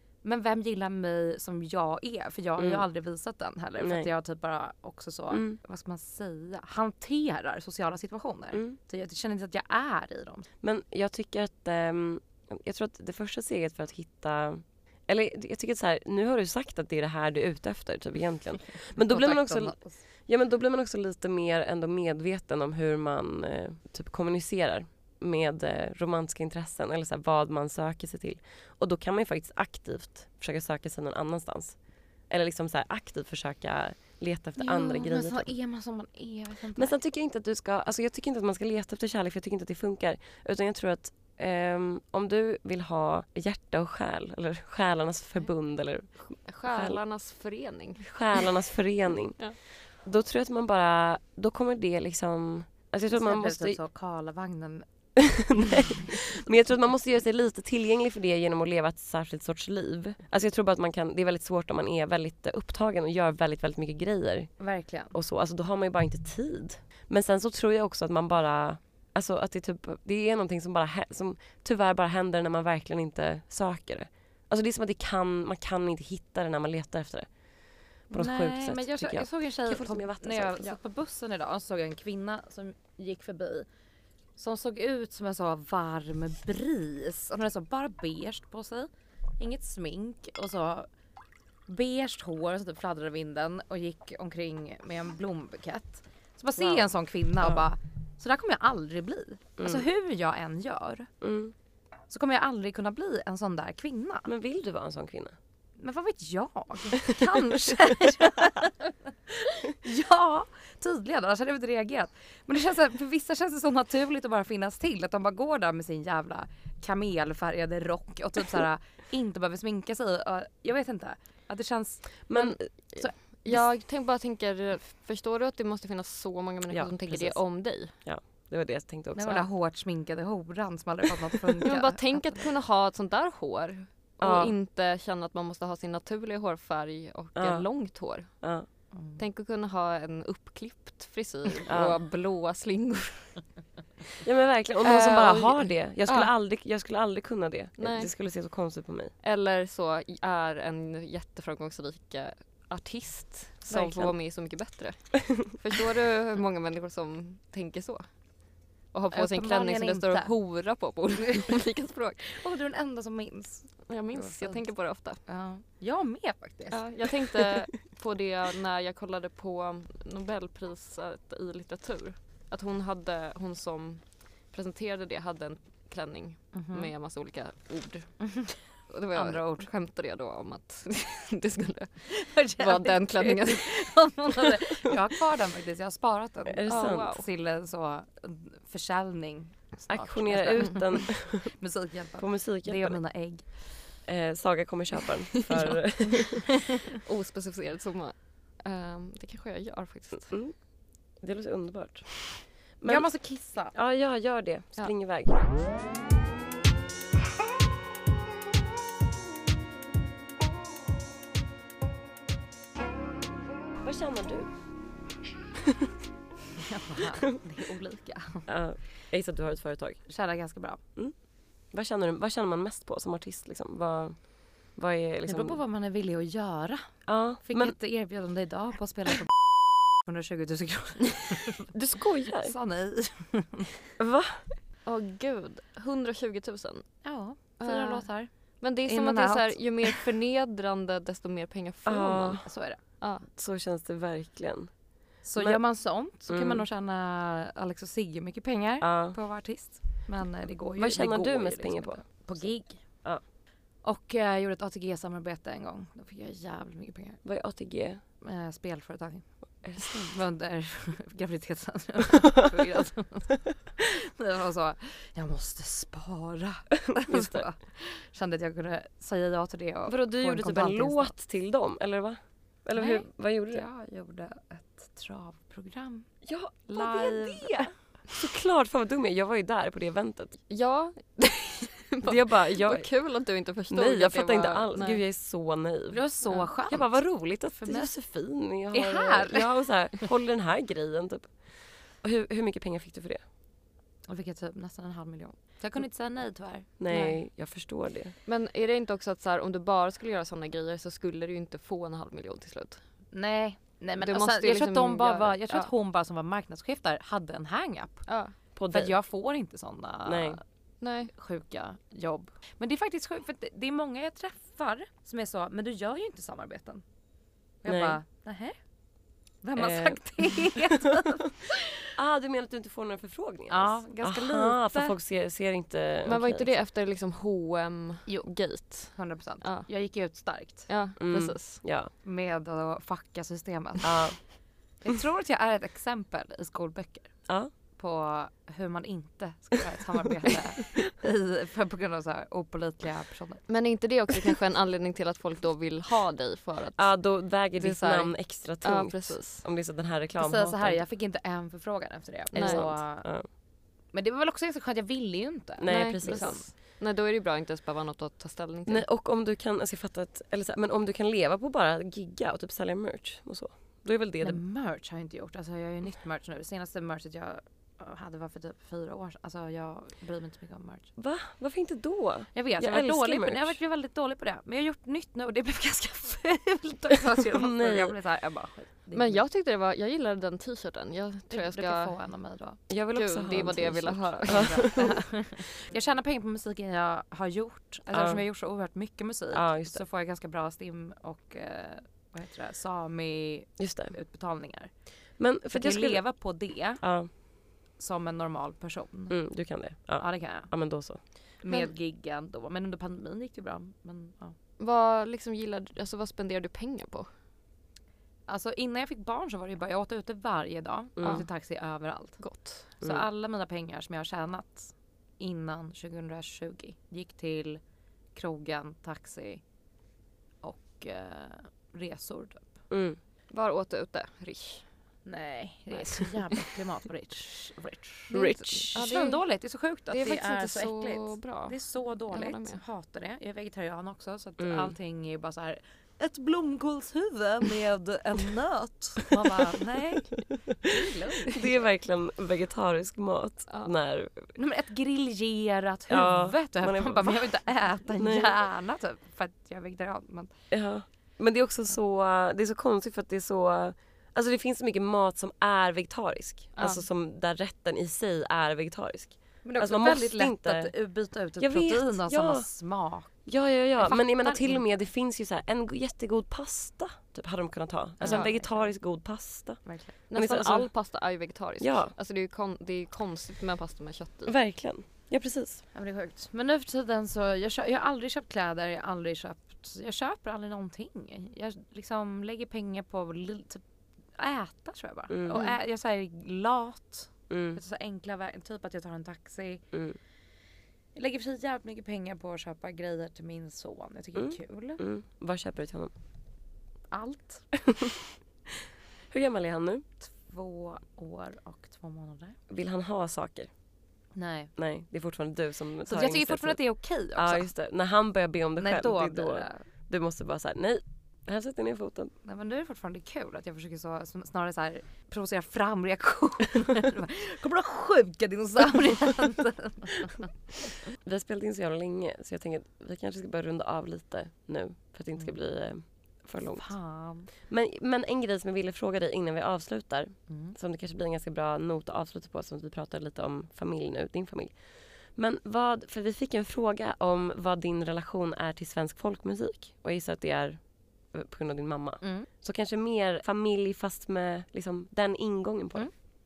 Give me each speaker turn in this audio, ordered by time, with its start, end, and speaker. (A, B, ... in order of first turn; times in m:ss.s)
0:00.2-0:10.5 A
0:02.6-0:02.8 B
0:03.8-0:04.1 B
0:05.3-0:05.6 B
0:10.6-0:35.5 B
0:19.0-0:20.0 A
0:34.6-0:36.9 A
0:36.8-0:47.0 B
0:46.4-0:48.5 C
0:48.0-0:53.8 B
0:53.1-0:54.8 A
0:55.2-1:04.5 B
0:55.5-0:56.0 A
1:04.6-1:05.1 A
1:05.1-1:17.3 B
1:18.1-1:20.8 B
1:18.1-1:23.7 A
1:24.4-1:30.9 A
1:31.7-1:41.1 A
1:36.6-1:37.6 B
1:39.6-1:39.8 B
1:41.2-1:41.5 B
1:42.1-1:44.3 A
1:44.3-1:45.4 B
1:45.8-2:03.2 A
2:02.3-2:03.6 B
2:03.2-2:08.0 C
2:06.7-2:09.5 B
2:09.1-2:12.5 A
2:11.6-2:18.5 C
2:14.2-2:14.5 B
2:17.3-2:17.7 B
2:18.4-2:18.7 B
2:18.9-2:19.2 A
2:19.2-2:23.5 C
2:21.7-2:22.0 B
2:24.2-2:29.1 B
2:24.8-2:26.3 C
2:27.8-2:28.1 C
2:29.2-2:38.1 C
2:33.7-2:34.1 B
2:38.9-2:42.4 C
2:39.1-2:40.3 A
2:41.2-2:41.6 A
2:42.2-2:46.9 A
2:43.9-2:45.2 C
2:46.7-3:03.9 C
2:56.5-2:56.9 A
2:58.2-2:58.6 A
2:59.1-2:59.7 A
3:02.1-3:13.5 A
3:06.5-3:07.2 B
3:06.7-3:07.2 C
3:09.9-3:11.6 B
3:12.2-3:13.0 B
3:14.0-3:16.5 B
3:15.5-3:15.8 C
3:15.7-3:16.3 A
3:16.9-3:20.4 C
3:20.3-3:25.4 B
3:22.8-3:23.7 A
3:33.8-3:34.5 B
3:36.6-3:38.5 A
3:38.5-3:40.1 B
3:40.1-3:40.8 A
3:40.9-3:45.6 B
3:45.2-3:51.7 A
3:47.0-3:47.7 B
3:51.7-3:52.5 B
3:52.4-3:53.7 A
3:54.0-3:54.5 B
3:54.8-4:02.5 C
3:57.0-4:00.0 A
4:01.8-4:02.5 B
4:02.4-4:02.8 A
4:03.0-4:03.3 C
4:03.3-4:04.7 B
4:05.2-4:13.0 A
4:05.4-4:05.8 B
4:06.3-4:06.6 B
4:08.8-4:09.2 B
4:10.8-4:13.2 B
4:13.8-4:17.2 A
4:17.2-4:18.0 B
4:18.2-4:31.2 A
4:19.6-4:20.2 B
4:27.1-4:27.4 B
4:29.9-4:33.6 B
4:32.8-4:36.1 A
4:36.2-4:40.4 B
4:36.6-4:37.7 A
4:40.5-4:45.0 C
4:42.0-4:42.9 B
4:43.7-4:53.2 B
4:45.9-4:48.0 A
4:48.7-4:50.0 A
4:54.1-4:56.8 A
4:56.8-4:58.2 B
4:56.9-4:57.2 C
4:58.2-5:02.8 C
5:03.1-5:08.1 A
5:04.0-5:05.7 C
5:08.1-5:08.3 C
5:08.6-5:08.9 B
5:08.7-5:10.4 A
5:10.0-5:10.4 B
5:10.8-5:11.1 C
5:11.1-5:16.8 A
5:17.6-5:18.6 A
5:17.6-5:18.0 B
5:19.4-5:21.6 A
5:19.6-5:21.0 B
5:21.9-5:26.5 B
5:23.5-5:25.0 A
5:26.0-5:29.8 C
5:28.0-5:30.7 A
5:30.7-5:31.6 C
5:31.0-5:31.9 B
5:32.0-5:43.5 A
5:33.8-5:34.2 B
5:43.5-5:49.4 C
5:46.8-5:50.8 B
5:50.2-5:53.1 A
5:52.3-5:52.6 C
5:52.3-5:53.3 B
5:53.9-5:56.5 A
5:55.6-5:56.4 B
5:55.7-5:58.8 C
5:58.6-6:04.4 B
6:04.2-6:10.9 A
6:11.0-6:13.6 B
6:12.3-6:19.2 A
6:17.2-6:18.0 B
6:18.9-6:21.9 C
6:21.3-6:22.6 A
6:22.7-6:25.0 B
6:22.9-6:24.9 C
6:24.3-6:34.7 A
6:27.9-6:28.2 B
6:29.3-6:29.8 B
6:33.6-6:33.9 B
6:35.2-6:36.1 B
6:35.5-6:37.2 A
6:36.8-6:37.1 B
6:37.8-6:39.2 A
6:39.1-6:41.0 B
6:40.0-6:40.5 A
6:41.4-6:44.3 A
6:44.6-6:47.1 C
6:48.3-6:57.6 A
6:51.0-6:51.2 B
6:51.0-6:51.3 C
6:52.2-6:52.7 C
6:52.8-6:53.0 B
6:58.1-6:59.4 A
7:00.4-7:02.6 A
7:02.7-7:03.0 B
7:03.3-7:04.7 C
7:05.0-7:21.6 A
7:05.7-7:06.1 C
7:08.1-7:12.6 C
7:08.1-7:08.6 B
7:14.4-7:14.7 B
7:21.3-7:24.3 B
7:24.4-7:30.4 A
7:25.9-7:27.3 B
7:28.0-7:28.3 B
7:30.5-7:40.8 B
7:36.6-7:36.8 C
7:39.4-7:43.3 A
7:41.4-7:42.5 B
7:43.2-7:50.7 B
7:43.8-7:44.6 A
7:48.0-7:48.7 A
7:48.0-7:48.3 C
7:49.6-7:49.9 A
7:50.1-7:54.3 C
7:51.6-7:51.9 B
7:54.2-7:55.6 B
7:55.7-8:03.6 A
8:04.1-8:09.6 A
8:05.1-8:05.4 B
8:07.3-8:07.6 B
8:09.7-8:10.0 B
8:10.9-8:14.8 A
8:14.2-8:15.9 B
8:16.9-8:17.6 A
8:19.1-8:19.8 B
8:20.0-8:22.4 A
8:22.5-8:23.5 B
8:24.1-8:24.5 A
8:24.6-8:32.1 B
8:25.9-8:27.5 A
8:28.6-8:29.6 A
8:32.2-8:40.3 A
8:40.9-8:46.7 B
8:46.4-8:47.3 A
8:47.4-9:00.6 B
8:50.3-8:50.6 A
9:01.1-9:05.9 B
9:02.0-9:02.3 A